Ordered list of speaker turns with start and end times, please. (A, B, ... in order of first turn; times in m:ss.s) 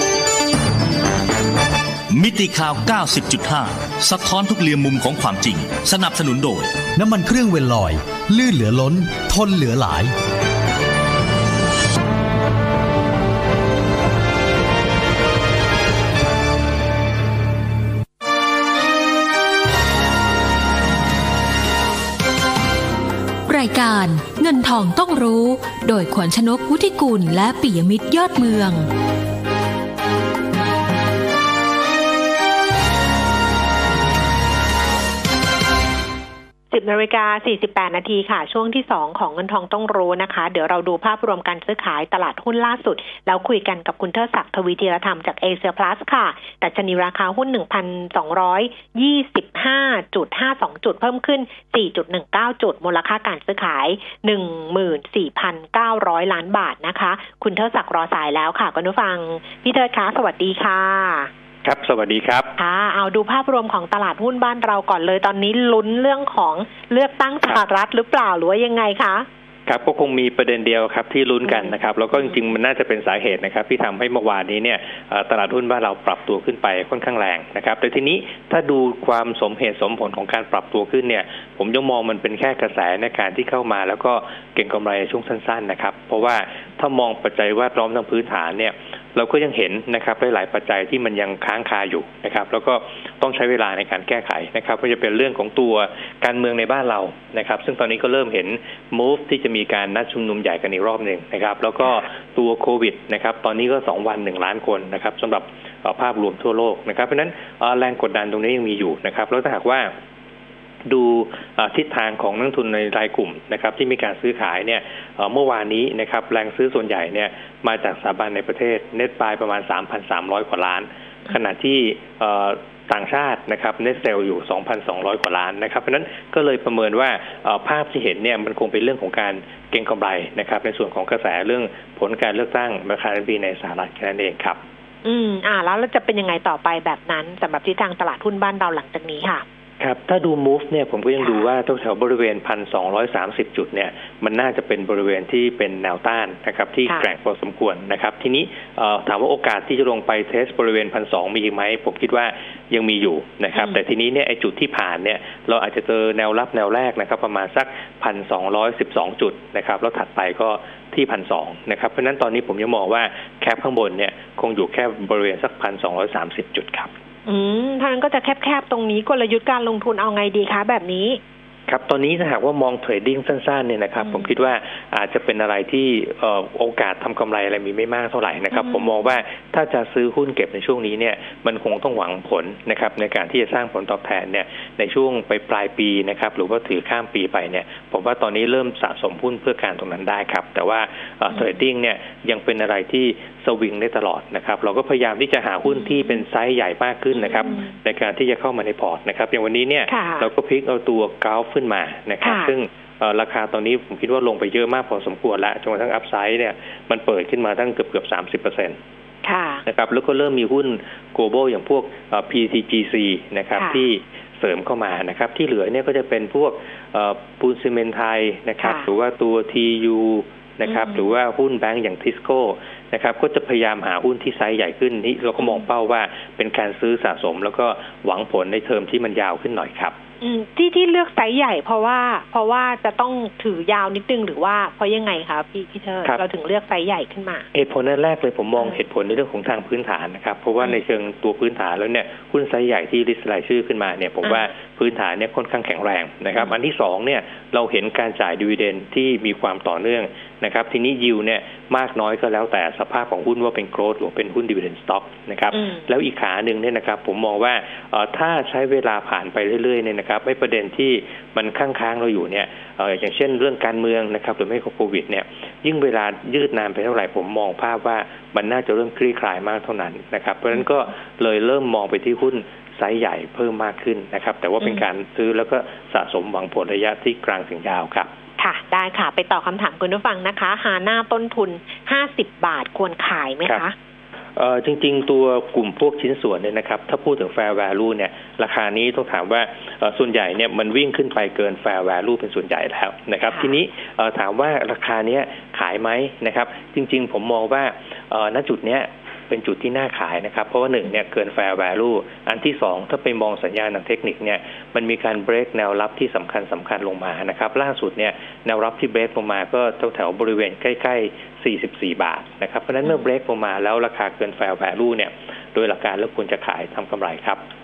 0:02.1-0:06.9 A
0:07.0-0:10.1 B
0:23.5-0:28.9 C
0:36.7-1:01.3 D
1:01.6-1:02.5 E
1:02.6-1:09.3 D
1:09.7-1:49.9 E
1:11.4-1:11.8 D
1:50.9-2:14.6 E
2:15.0-2:19.4 D
2:19.8-2:46.9 E
2:21.2-2:21.5 D
2:26.9-2:27.1 D
2:33.6-2:33.8 D
2:47.3-2:51.2 D
2:51.7-3:28.8 E
2:54.0-2:54.3 D
2:58.5-2:59.0 D
3:11.3-3:11.6 D
3:15.6-3:16.2 D
3:17.1-3:17.7 D
3:19.9-3:20.3 D
3:22.2-3:22.5 D
3:29.2-3:29.6 D
3:29.7-3:50.0 E
3:33.6-3:33.8 D
3:38.6-3:38.9 D
3:40.6-3:41.1 D
3:45.4-3:45.6 D
3:50.2-3:57.5 D
3:57.5-4:38.1 E
4:04.2-4:04.5 D
4:15.5-4:15.9 D
4:38.4-4:43.7 D
4:44.4-5:17.4 E
4:53.3-4:53.6 D